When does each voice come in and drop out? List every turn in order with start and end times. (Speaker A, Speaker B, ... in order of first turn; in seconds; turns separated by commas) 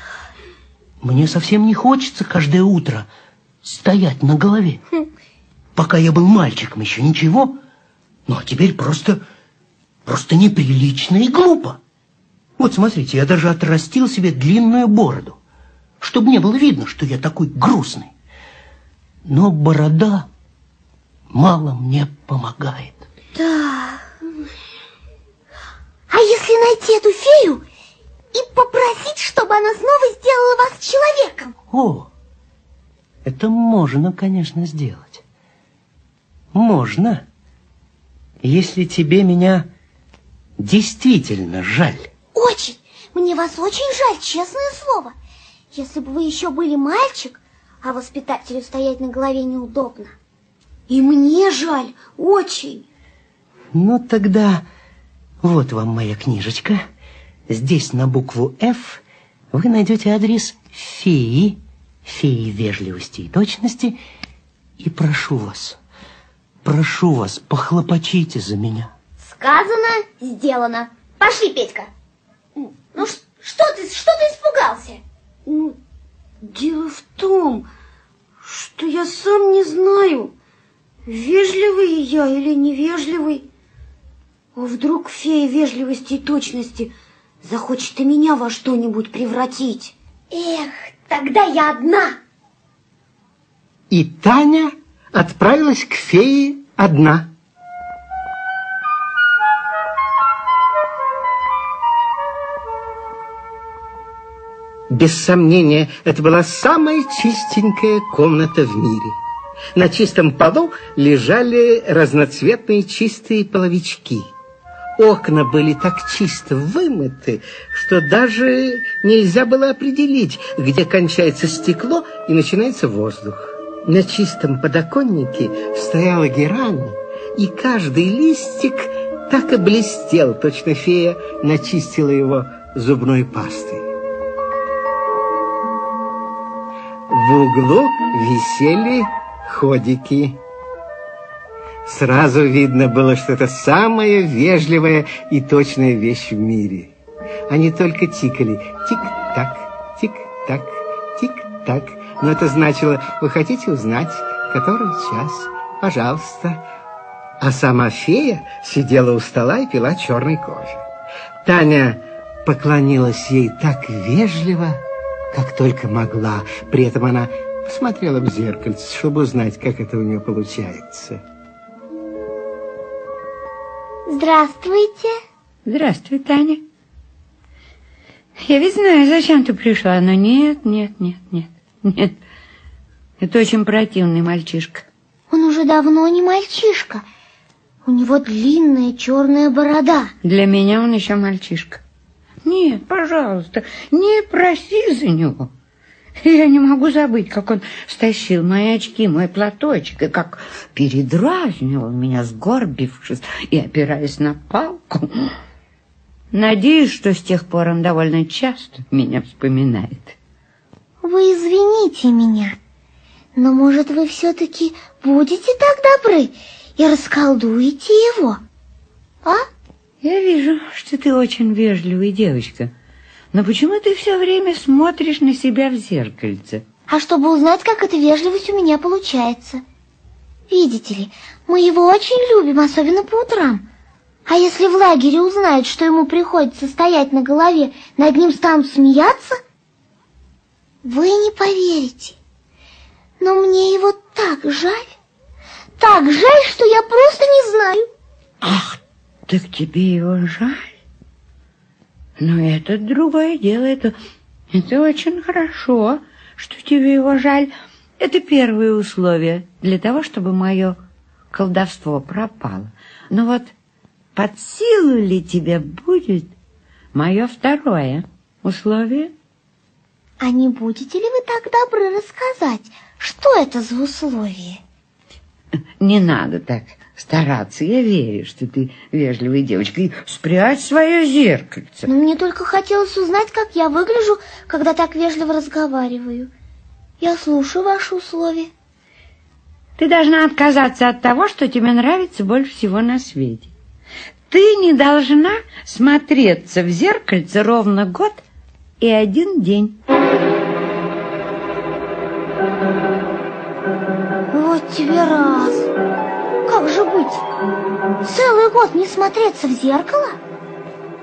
Speaker A: 1.0-3.1, Speaker A: 3.6-4.8, Speaker A: 5.8-7.6, Speaker A: 8.3-9.2, Speaker A: 10.1-11.8, Speaker A: 12.6-15.4, Speaker A: 16.0-18.1, Speaker A: 19.3-20.3, Speaker A: 21.3-23.1, Speaker B: 23.4-24.1, Speaker B: 26.1-27.6, Speaker B: 28.3-31.5, Speaker A: 31.7-32.1, Speaker A: 33.2-35.2, Speaker A: 36.5-37.2, Speaker A: 38.4-39.7, Speaker A: 40.6-42.1, Speaker B: 42.4-45.1, Speaker B: 45.7-50.1, Speaker C: 50.9-52.9, Speaker A: 53.7-54.6, Speaker A: 55.4-56.8, Speaker A: 57.5-64.0, Speaker A: 64.8-65.8, Speaker A: 66.6-68.9, Speaker B: 69.2-71.9, Speaker B: 72.7-75.0, Speaker C: 75.5-75.8, Speaker C: 76.4-77.7, Speaker C: 78.4-80.3, Speaker C: 81.1-83.5, Speaker C: 84.5-89.9, Speaker B: 90.3-92.2, Speaker D: 93.9-97.3, Speaker D: 104.9-109.2, Speaker D: 109.8-114.3, Speaker D: 115.0-133.9, Speaker D: 137.1-140.4, Speaker D: 141.8-146.9, Speaker D: 147.5-156.6, Speaker D: 157.4-160.8, Speaker D: 161.4-164.8, Speaker D: 165.3-171.2, Speaker B: 174.1-175.1, Speaker E: 175.7-176.6, Speaker E: 178.4-182.2, Speaker E: 183.2-184.9, Speaker B: 185.3-187.0, Speaker B: 187.8-190.1, Speaker E: 190.2-191.8, Speaker E: 192.4-195.5, Speaker E: 196.2-205.3, Speaker E: 206.3-210.2, Speaker B: 211.0-212.6, Speaker B: 213.4-218.4, Speaker E: 220.0-222.7, Speaker E: 223.3-226.6, Speaker B: 226.9-229.6, Speaker B: 230.5-233.7, Speaker B: 234.3-239.4, Speaker B: 240.8-242.2, Speaker B: 243.2-244.9, Speaker B: 245.8-247.9, Speaker E: 248.4-250.7, Speaker E: 252.2-254.0, Speaker E: 254.5-260.8, Speaker E: 261.3-263.5, Speaker E: 264.1-266.3, Speaker E: 266.9-269.1, Speaker B: 270.2-274.6, Speaker E: 275.8-281.9, Speaker B: 281.9-286.3, Speaker B: 287.0-288.5, Speaker E: 289.8-293.5, Speaker E: 294.3-298.2, Speaker E: 298.8-299.8, Speaker B: 304.3-305.7, Speaker B: 306.5-307.2, Speaker B: 308.0-310.2